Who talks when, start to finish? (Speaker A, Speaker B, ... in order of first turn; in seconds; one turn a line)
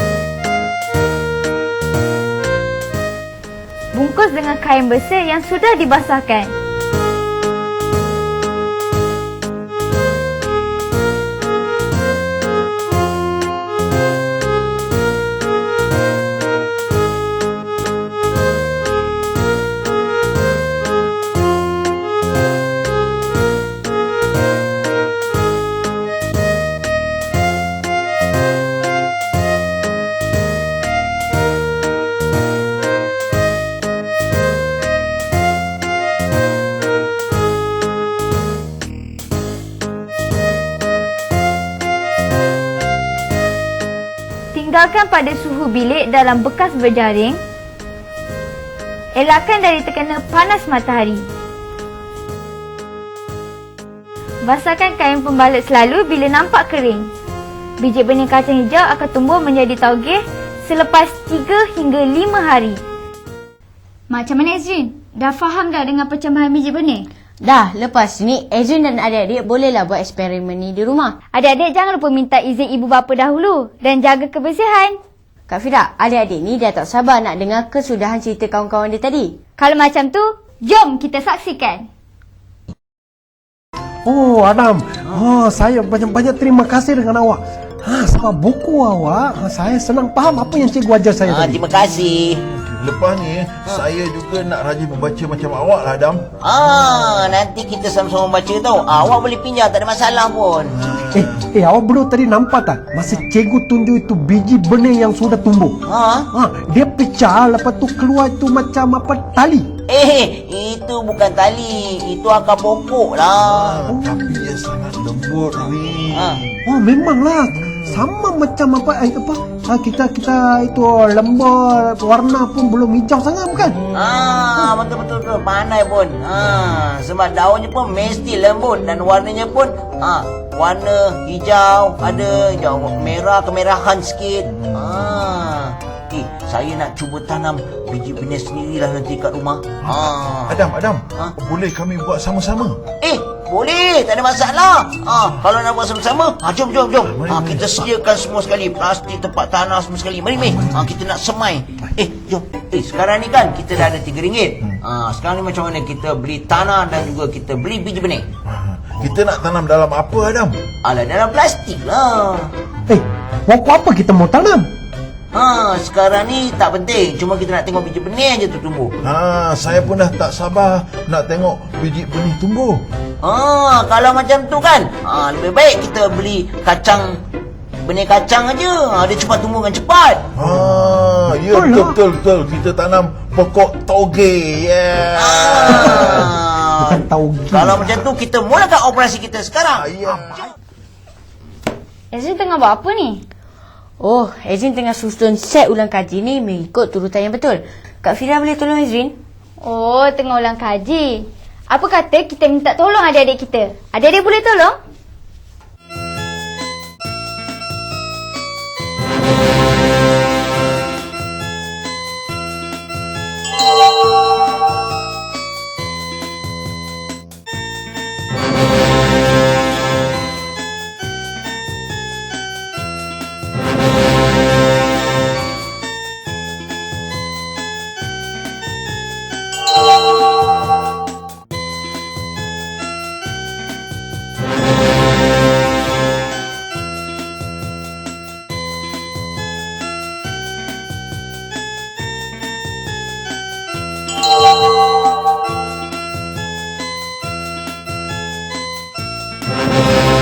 Speaker A: 3.9-6.5
Speaker A: 44.5-47.4
Speaker A: 49.1-51.2
Speaker A: 54.4-57.1
Speaker A: 57.8-62.8
Speaker A: 64.1-67.0
Speaker B: 67.4-71.1
Speaker A: 71.3-75.0
Speaker B: 75.5-79.3
Speaker A: 79.6-81.9
Speaker C: 84.0-91.6
Speaker D: 91.2-92.4
Speaker E: 92.5-96.2
Speaker D: 96.4-101.1
Speaker E: 100.8-101.4
Speaker C: 101.1-105.8
Speaker D: 105.8-106.3
Speaker C: 106.3-109.7
Speaker D: 109.9-113.9
Speaker E: 113.4-116.6
Speaker C: 113.9-114.2
Speaker D: 116.1-116.4
Speaker C: 116.7-123.8
Speaker E: 117.6-118.0
Speaker E: 123.6-124.1
Speaker D: 123.9-140.6
Speaker E: 134.5-135.2
Speaker E: 139.9-142.8
Speaker D: 143.0-158.2
Speaker E: 147.1-147.8
Speaker E: 150.4-150.9
Speaker E: 158.5-160.6
Speaker D: 160.8-162.5
Speaker C: 162.9-164.7
Speaker D: 165.3-168.9
Speaker E: 169.0-172.8
Speaker D: 173.2-177.2
Speaker D: 177.8-180.2
Speaker E: 180.3-186.3
Speaker C: 181.5-182.0
Speaker D: 185.2-189.8
Speaker C: 186.8-188.0
Speaker E: 189.8-190.4
Speaker A: 192.1-193.2
Speaker B: 194.0-199.2
Speaker A: 199.6-204.8